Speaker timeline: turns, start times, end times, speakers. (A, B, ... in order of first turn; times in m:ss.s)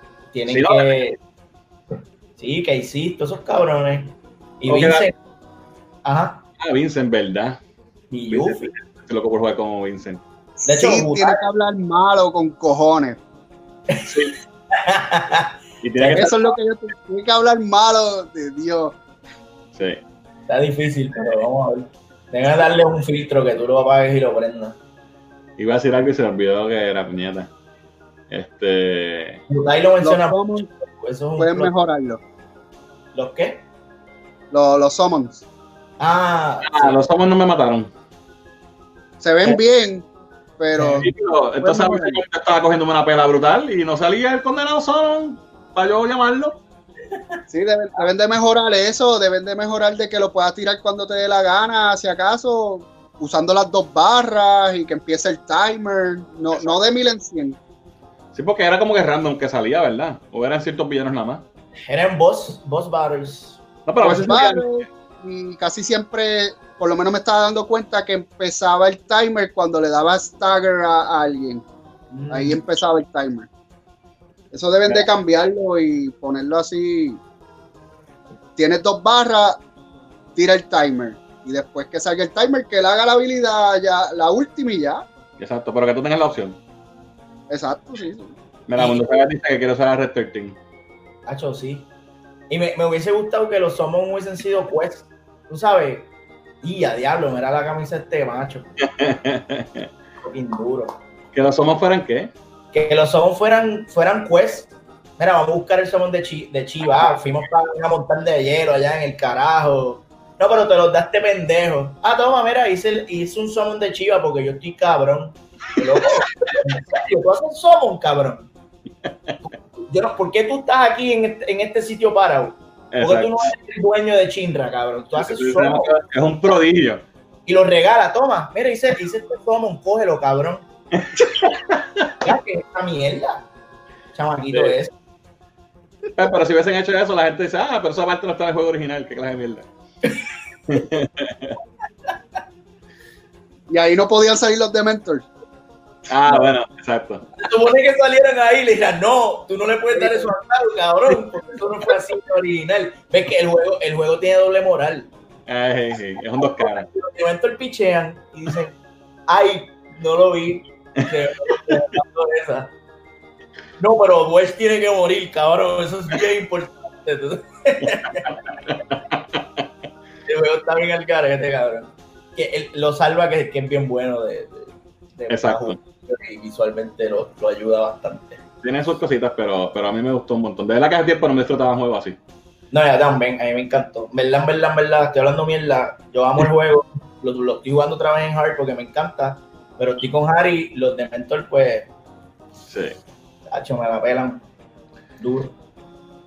0:00.3-0:01.2 A
0:00.5-0:00.9 B
0:02.4-0:05.1 A
0:04.7-0:05.1 B
0:06.0-0:06.4 A
0:06.6-0:07.6 B
0:08.1-0:08.7 A
0:08.3-0:10.2 B
0:10.6-0:13.2 C
0:10.7-0:11.5 A
0:13.9-0:14.2 A
0:14.0-0:14.4 B
0:14.7-0:16.3 A
0:15.8-0:16.4 B
0:16.2-0:19.0 C
0:19.8-0:20.0 B
0:20.5-0:24.8 A
0:25.6-0:27.5 B
0:28.3-0:29.4 B
0:29.5-0:31.7 A
0:30.0-0:30.7 C
0:31.4-0:32.2 C
0:33.1-0:33.6 A
0:34.5-0:35.4 C
0:36.0-0:37.0 A
0:36.6-0:37.9 B
0:39.2-0:40.1 C
0:40.6-0:41.1 C
0:40.8-0:46.6 B
0:41.6-0:42.2 C
0:47.5-0:57.6 C
0:58.3-1:01.4 B
1:01.9-1:03.6 A
1:03.9-1:04.7 B
1:04.0-1:11.7 C
1:12.1-1:12.6 A
1:12.3-1:13.5 C
1:14.5-1:17.2 C
1:18.6-1:19.6 C
1:20.4-1:25.0 C
1:25.4-1:26.6 B
1:27.5-1:28.4 C
1:28.7-1:30.6 B
1:28.8-1:29.0 A
1:31.3-1:31.9 A
1:32.5-1:36.1 A
1:36.6-1:38.8 A
1:38.8-1:39.9 B
1:40.2-1:40.9 A
1:41.3-1:42.3 B
1:42.7-1:58.5 A
1:59.0-1:59.4 B
1:59.8-2:06.5 A
2:02.9-2:03.5 B
2:05.2-2:07.0 B
2:07.5-2:10.7 A
2:11.0-2:12.2 B
2:12.2-2:13.5 A
2:14.1-2:14.9 A
2:14.5-2:14.8 B
2:16.2-2:19.7 B
2:20.7-2:21.6 B
2:23.7-2:25.3 C
2:26.1-2:27.2 B
2:27.4-2:35.1 A
2:29.9-2:30.3 C
2:35.5-2:36.9 B
2:36.4-2:42.7 A
2:41.0-2:41.6 B
2:43.8-2:48.7 A
2:48.0-2:49.6 B
2:50.2-2:58.4 A
2:55.3-2:55.8 B
2:58.6-3:02.2 B
3:02.7-3:11.9 A
3:12.7-3:13.0 B
3:13.5-3:14.4 A
3:15.2-3:15.5 A